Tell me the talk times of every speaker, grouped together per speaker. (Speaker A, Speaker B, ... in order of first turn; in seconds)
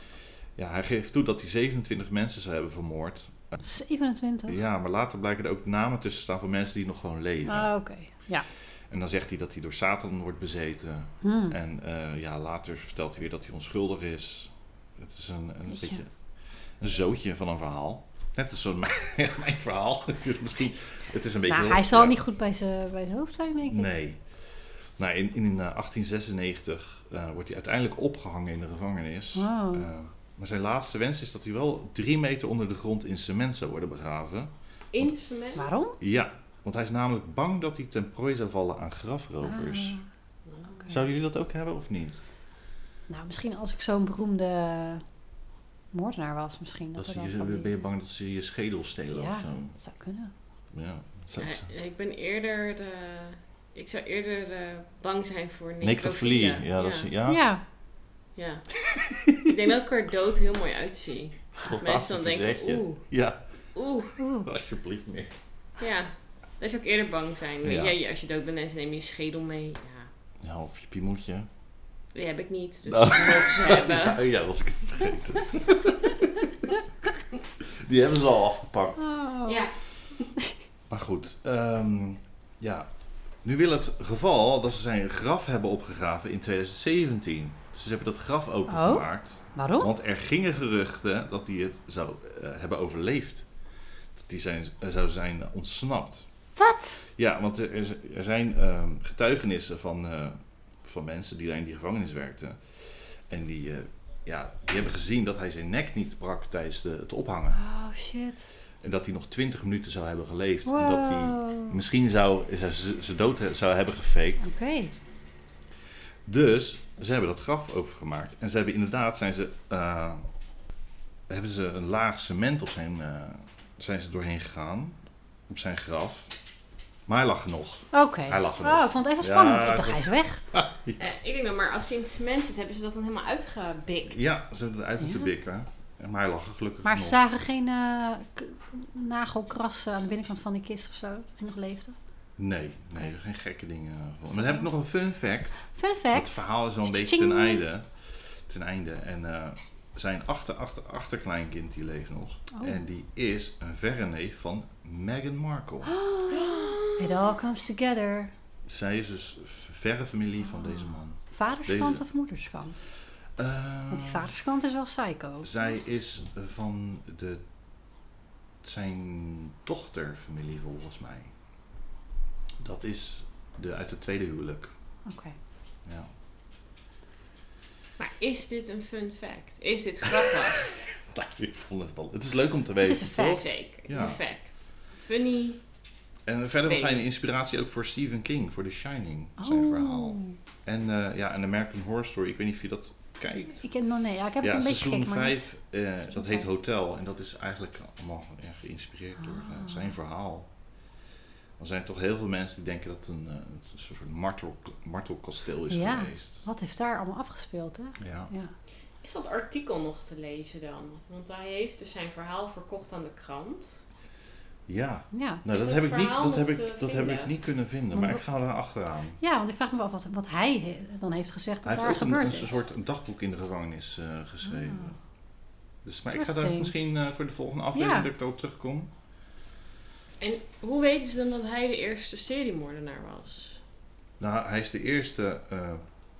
Speaker A: 0.6-3.6, 4.5-7.7, 8.9-16.1, 16.8-22.2, 23.6-24.2, 25.0-35.1, 36.0-40.0, 40.9-42.2, 47.0-49.8, 50.7-51.6, 55.8-57.4, 59.0-59.5, 61.6-63.4, 64.4-65.3, 67.6-68.0, 70.4-71.5, 72.8-76.7, 77.6-79.1, 80.9-82.9, 83.4-93.5, 94.2-96.2, 97.1-102.6, 103.3-107.6, 108.8-114.5, 116.2-120.3, 121.3-125.0, 125.5-126.3, 127.1-131.1, 134.1-137.2, 142.4-156.0, 158.7-162.0, 163.4-164.4, 165.4-167.4, 168.6-171.3, 172.6-174.7, 175.8-176.1, 180.1-184.2, 186.2-193.6, 194.4-200.5, 201.6-206.5, 208.0-208.3, 214.7-219.2, 221.6-224.9, 225.8-228.9, 234.2-235.8
Speaker B: 3.6-4.6, 7.4-8.4, 11.2-11.6, 15.7-16.0, 21.5-23.9, 29.3-29.9, 35.6-36.0, 39.4-40.0, 43.1-45.0, 45.9-47.7, 49.1-50.3, 57.3-57.6, 64.2-64.5, 79.0-79.7, 88.7-89.9, 96.6-97.0, 107.5-108.5, 110.7-111.8, 114.4-114.9, 127.9-130.4, 135.0-135.3, 136.8-141.9, 144.3-144.7, 145.7-147.6, 152.5-152.8, 155.9-158.3, 161.3-162.8, 163.9-165.5, 175.1-175.3, 182.8-183.4, 189.4-190.4, 193.5-195.4, 196.1-196.4, 199.2-199.9, 205.7-208.5, 215.1-215.4, 217.9-218.2, 219.2-222.6, 224.5-224.9, 226.1-226.7, 227.7-228.1
Speaker C: 34.9-35.8, 51.4-57.1, 58.4-58.7, 59.3-63.0, 63.7-64.1, 65.8-70.1, 72.1-74.2, 79.4-79.7, 131.0-134.3, 156.3-157.2, 178.0-180.7, 183.3-185.6, 186.7-187.0, 209.0-213.8, 215.5-217.3, 230.2-233.6